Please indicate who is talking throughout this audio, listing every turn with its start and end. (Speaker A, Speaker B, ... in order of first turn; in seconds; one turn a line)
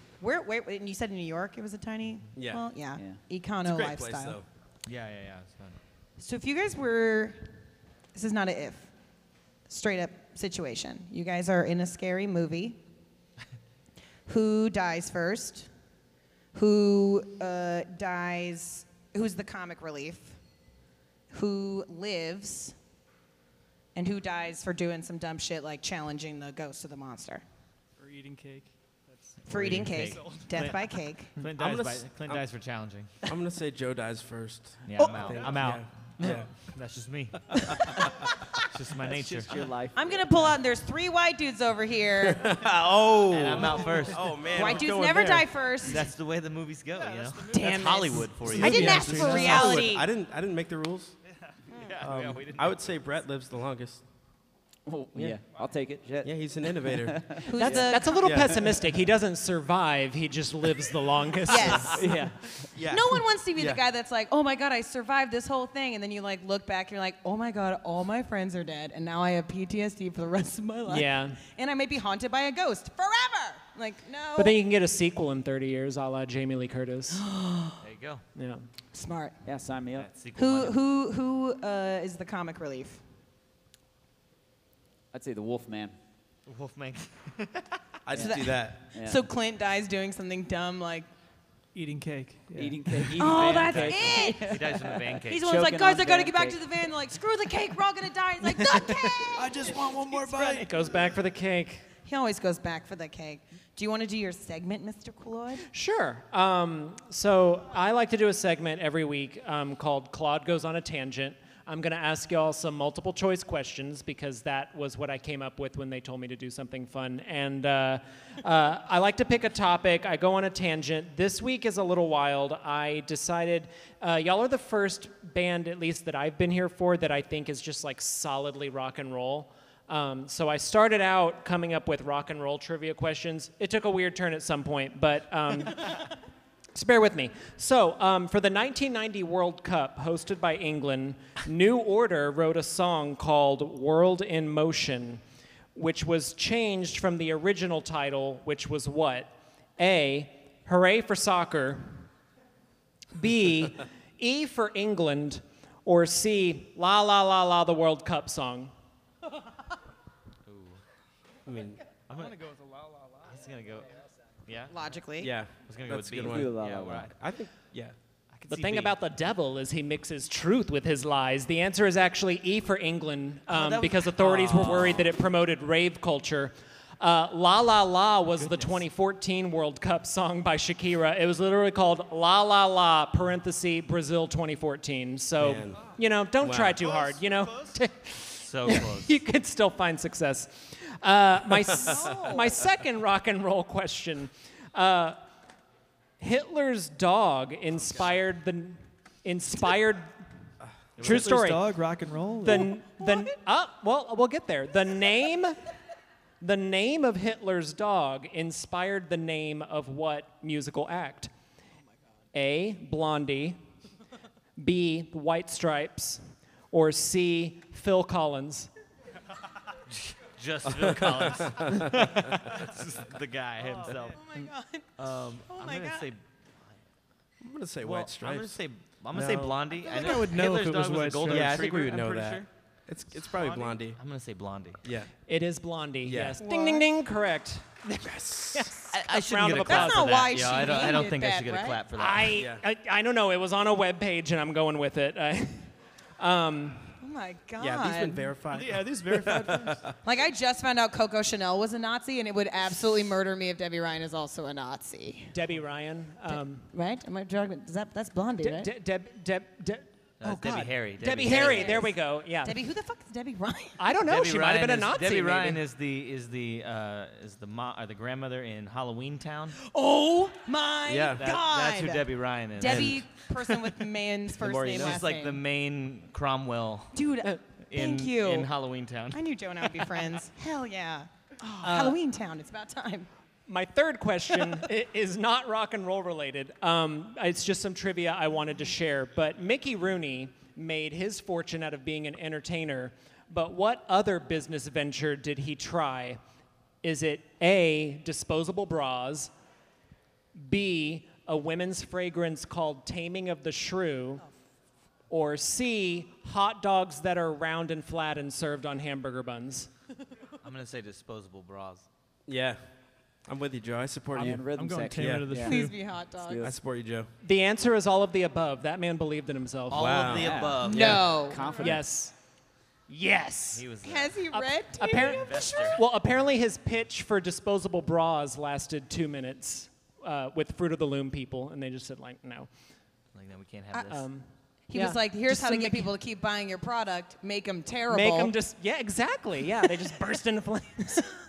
Speaker A: 0.2-4.4
Speaker B: 2.4-2.6
Speaker B: 3.6-4.5
Speaker C: 4.8-5.8
Speaker A: 6.2-7.5
Speaker A: 8.2-8.9
Speaker A: 9.7-12.8
Speaker A: 14.3-15.7
Speaker A: 16.5-20.4
Speaker A: 21.3-22.8
Speaker A: 23.9-27.4
Speaker D: 28.0-29.5
Speaker A: 29.5-31.3
Speaker C: 29.5-33.3
Speaker B: 31.6-32.5
Speaker B: 33.2-36.5
Speaker C: 34.9-37.8
Speaker C: 38.7-39.6
Speaker E: 39.0-40.6
Speaker A: 40.0-42.6
Speaker B: 42.2-45.5
Speaker C: 43.3-44.9
Speaker A: 44.4-46.1
Speaker C: 45.8-49.1
Speaker A: 47.5-50.1
Speaker B: 48.5-51.1
Speaker F: 48.6-49.9
Speaker C: 51.7-52.9
Speaker B: 52.0-54.0
Speaker E: 54.9-57.9
Speaker B: 55.1-55.4
Speaker B: 56.2-57.5
Speaker A: 57.5-58.6
Speaker F: 57.5-62.2
Speaker B: 58.2-58.6
Speaker A: 61.5-62.2
Speaker E: 61.9-62.7
Speaker B: 62.8-63.8
Speaker A: 62.9-74.6
Speaker F: 70.9-71.4
Speaker F: 74.4-77.2
Speaker A: 77.1-77.8
Speaker C: 77.8-78.2
Speaker F: 78.4-78.7
Speaker A: 78.9-79.4
Speaker E: 79.4-80.1
Speaker C: 80.0-80.8
Speaker A: 80.4-83.0
Speaker E: 85.1-86.0
Speaker C: 86.5-87.8
Speaker B: 88.1-88.8
Speaker E: 88.1-89.2
Speaker A: 88.2-91.1
Speaker D: 91.7-93.3
Speaker E: 92.5-96.6
Speaker A: 93.2-100.7
Speaker C: 93.6-95.5
Speaker F: 98.8-99.1
Speaker D: 99.3-101.0
Speaker F: 100.5-101.9
Speaker A: 102.0-105.7
Speaker F: 105.7-136.1
Speaker F: 136.8-145.2
Speaker F: 145.8-152.0
Speaker F: 153.2-158.7
Speaker C: 160.4-160.8
Speaker B: 161.5-161.8
Speaker C: 162.1-162.6
Speaker C: 163.2-164.7
Speaker A: 164.7-165.4
Speaker B: 165.2-166.5
Speaker C: 165.7-167.1
Speaker E: 166.2-167.1
Speaker B: 167.1-168.0
Speaker C: 168.3-169.0
Speaker F: 168.5-195.2
Speaker C: 173.5-175.1
Speaker C: 178.4-178.8
Speaker B: 185.4-187.2
Speaker C: 188.4-189.2
Speaker A: 191.7-192.6
Speaker F: 196.2-200.1
Speaker C: 201.0-201.3
Speaker D: 201.0-202.8
Speaker F: 201.0-201.7
Speaker F: 202.4-205.6
Speaker F: 206.4-211.3
Speaker F: 212.3-213.6
Speaker F: 214.6-218.7
Speaker C: 219.8-224.2
Speaker B: 220.9-221.7
Speaker A: 224.1-224.9
Speaker C: 225.0-226.8
Speaker A: 225.5-226.1
Speaker B: 227.4-228.6
Speaker C: 227.8-232.5
Speaker D: 229.1-231.6
Speaker A: 229.8-230.2
Speaker B: 231.3-234.0
Speaker C: 233.2-234.8
Speaker B: 234.8-235.1
Speaker F: 235.3-240.2
Speaker B: 236.0-236.4
Speaker A: 236.4-236.9
Speaker B: 238.0-238.8
Speaker C: 238.9-242.4
Speaker A: 239.6-241.8
Speaker F: 241.9-246.9
Speaker B: 242.4-242.6
Speaker A: 247.0-248.3
Speaker B: 247.6-249.9
Speaker D: 248.5-249.8
Speaker A: 250.0-255.3
Speaker F: 255.3-256.7
Speaker A: 256.3-258.7
Speaker F: 258.4-262.6
Speaker C: 260.2-261.9
Speaker A: 261.2-263.8
Speaker F: 263.8-265.6
Speaker C: 264.1-269.6
Speaker A: 269.6-275.4
Speaker B: 270.9-271.2
Speaker C: 271.1-273.5
Speaker B: 272.6-273.0
Speaker C: 274.4-277.0
Speaker B: 274.5-275.0
Speaker A: 276.9-278.5
Speaker C: 277.6-280.0
Speaker A: 279.1-281.1
Speaker F: 281.4-282.0
Speaker A: 281.6-283.1
Speaker F: 283.5-296.2
Speaker F: 296.8-299.3
Speaker F: 300.4-304.2
Speaker F: 305.1-309.7
Speaker C: 310.4-311.9
Speaker B: 312.3-312.6
Speaker B: 313.2-314.4
Speaker E: 314.1-315.6
Speaker D: 314.1-315.8
Speaker B: 315.0-315.4
Speaker A: 315.4-316.5
Speaker E: 316.2-316.6
Speaker B: 316.4-317.1
Speaker F: 317.2-320.2
Speaker B: 319.7-320.4
Speaker C: 319.7-321.2
Speaker E: 320.1-321.8
Speaker A: 320.6-321.7
Speaker F: 321.6-322.1
Speaker F: 322.9-323.7
Speaker C: 323.5-324.2
Speaker A: 323.8-325.8
Speaker F: 324.3-332.5
Speaker C: 324.8-325.8
Speaker C: 333.1-334.1
Speaker F: 333.8-335.9
Speaker A: 334.7-338.3
Speaker F: 337.9-341.1